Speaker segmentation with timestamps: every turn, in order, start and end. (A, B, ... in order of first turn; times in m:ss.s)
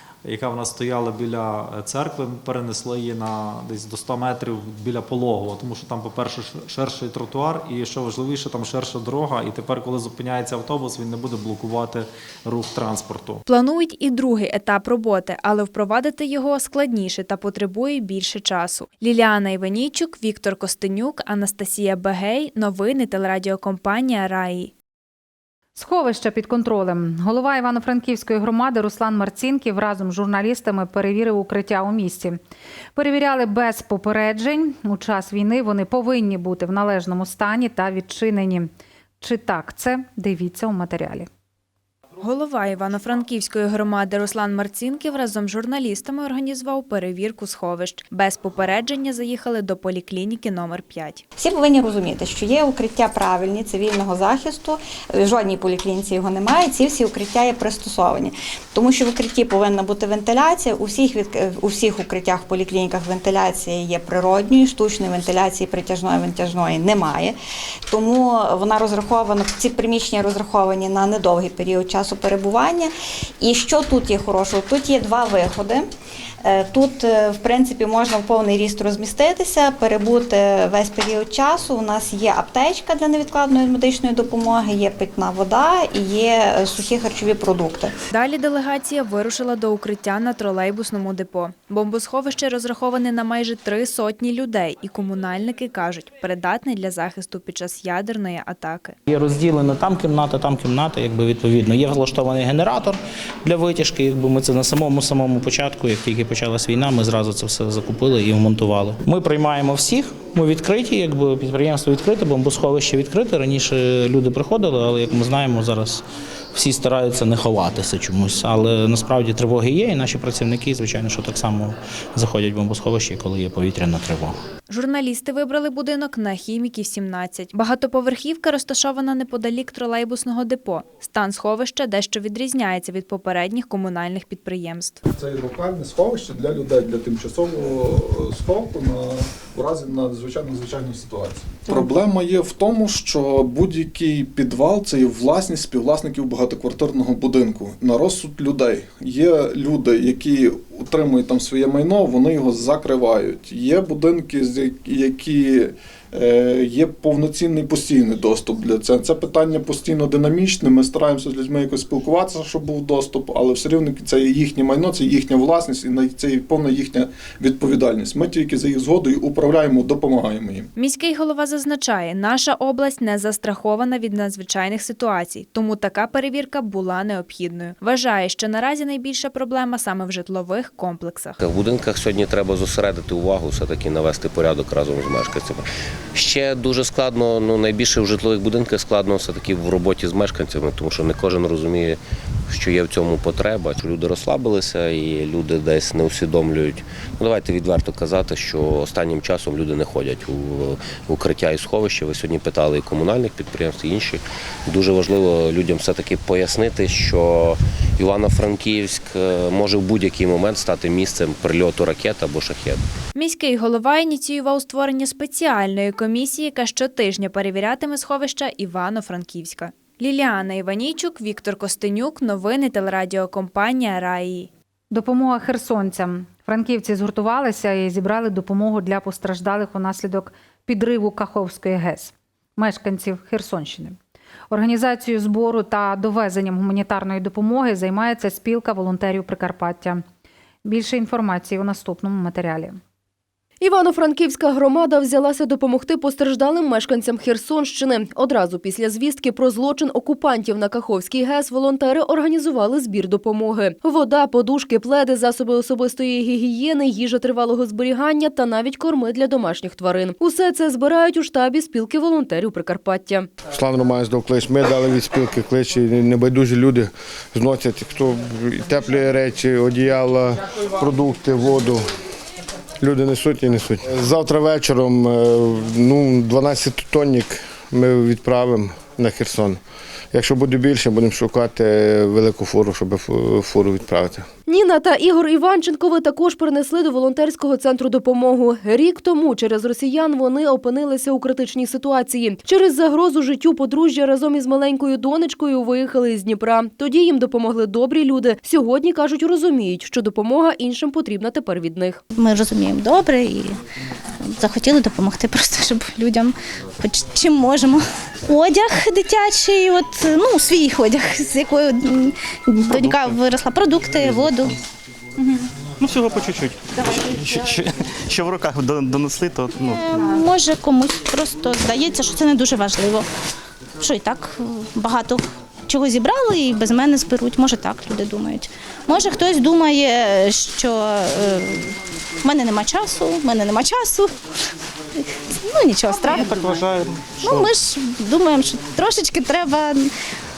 0:00.2-0:13.4 A
0:13.5-0:24.7 B
0:25.7-0:32.4 C
0:32.9-0:38.7 C
0:39.2-0:41.3 C
0:42.2-0:51.2 B
0:51.4-1:07.4 D
1:07.9-1:12.9 D
1:13.4-1:15.9 D
1:16.4-1:27.9 D
1:28.1-1:39.0 B
1:39.1-1:56.0 E
1:56.5-2:04.3 E
2:04.7-2:15.0 B
2:15.1-2:50.7 F
2:50.8-3:01.4 B
3:01.4-3:32.8 G
3:33.1-3:44.5 B
3:44.9-3:54.0 C
3:54.5-4:00.0 C
4:00.6-4:02.8 C
4:03.6-4:23.3 H
4:23.5-4:31.8 I
4:32.8-4:39.6 I
4:40.1-4:44.2 I
4:44.5-5:02.0 H
5:02.1-5:03.6 J
5:04.2-5:14.5 J
5:15.8-5:19.9 K
5:19.7-5:23.1 J
5:23.8-5:34.1 J
5:35.1-5:36.5 J
5:36.2-5:37.5 K
5:37.2-5:39.9 J